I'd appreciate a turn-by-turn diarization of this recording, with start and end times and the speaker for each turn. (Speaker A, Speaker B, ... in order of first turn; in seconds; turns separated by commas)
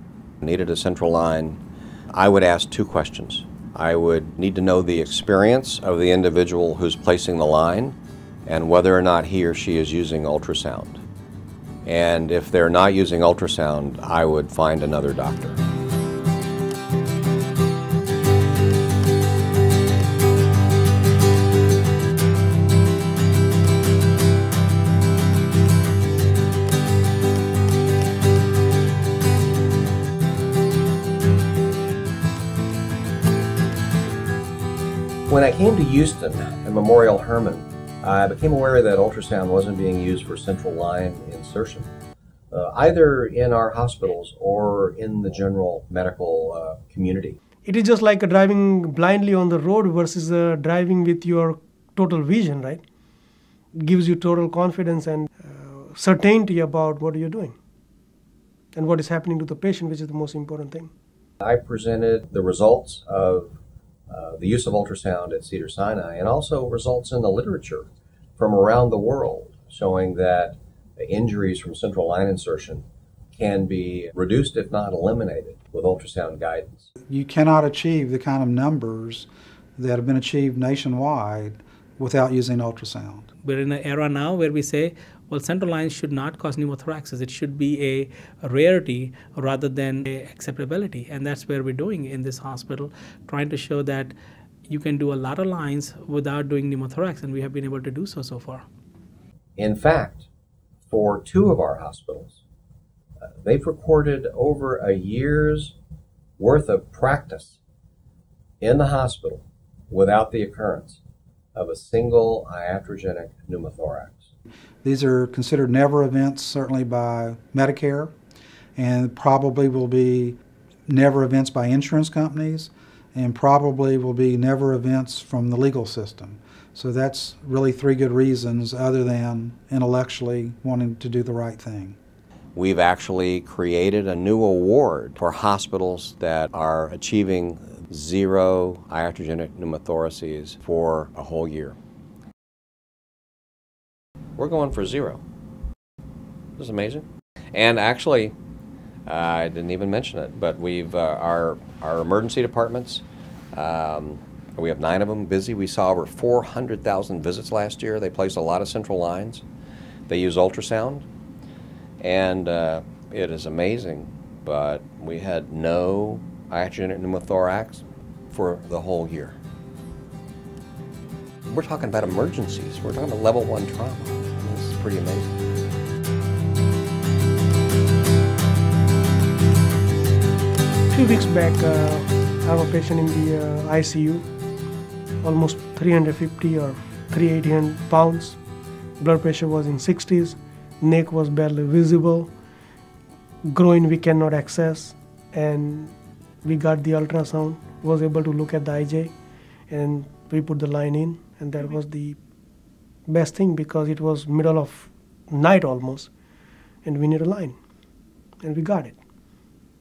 Speaker A: 0.4-1.6, Speaker A: 2.1-11.0, Speaker A: 11.8-15.6, Speaker A: 35.3-41.9, Speaker A: 42.5-47.4, Speaker B: 47.6-52.8, Speaker B: 53.8-57.6, Speaker B: 58.7-60.9, Speaker A: 61.4-76.9, Speaker C: 77.1-83.3, Speaker D: 83.4-94.1, Speaker D: 94.7-98.7, Speaker A: 99.6-100.3, Speaker A: 100.9-102.4, Speaker A: 103.3-105.8, Speaker A: 106.4-107.6, Speaker A: 108.6-111.0, Speaker A: 111.5-114.3, Speaker C: 114.8-118.1, Speaker C: 118.8-132.0, Speaker A: 132.6-141.8, Speaker A: 144.4-145.2, Speaker A: 146.6-148.4, Speaker A: 149.1-159.4, Speaker A: 160.1-161.1, Speaker A: 162.0-169.4, Speaker A: 171.4-175.4, Speaker B: 180.9-184.3, Speaker B: 185.2-188.4, Speaker B: 189.0-192.3, Speaker B: 193.5-199.2, Speaker B: 199.7-202.2, Speaker B: 203.1-206.1, Speaker B: 206.8-207.6, Speaker B: 208.4-209.0